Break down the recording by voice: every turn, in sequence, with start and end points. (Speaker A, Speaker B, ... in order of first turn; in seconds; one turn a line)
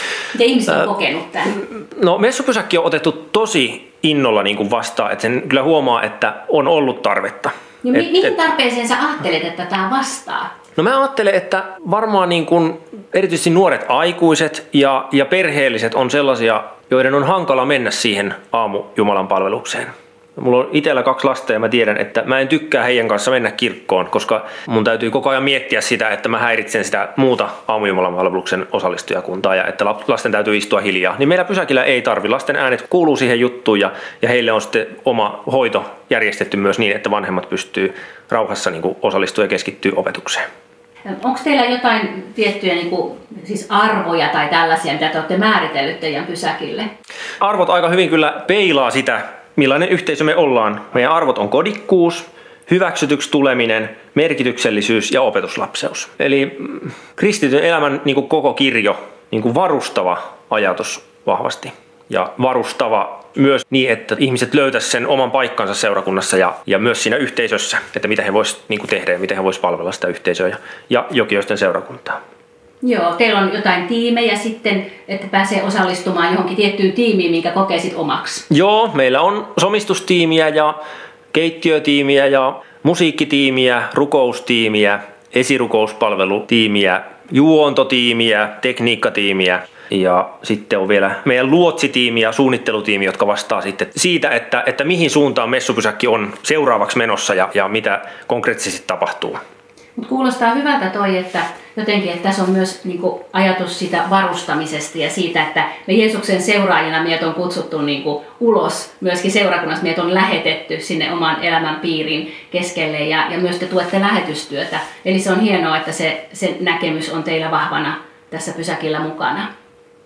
Speaker A: 0.3-1.6
Speaker B: 1.8-8.3
Speaker A: 7.8-10.5
Speaker B: 10.8-40.4
Speaker A: 41.1-46.9
Speaker B: 47.4-72.2
Speaker A: 72.8-78.4
Speaker B: 78.5-80.8
Speaker B: 81.3-99.4
Speaker A: 100.0-119.5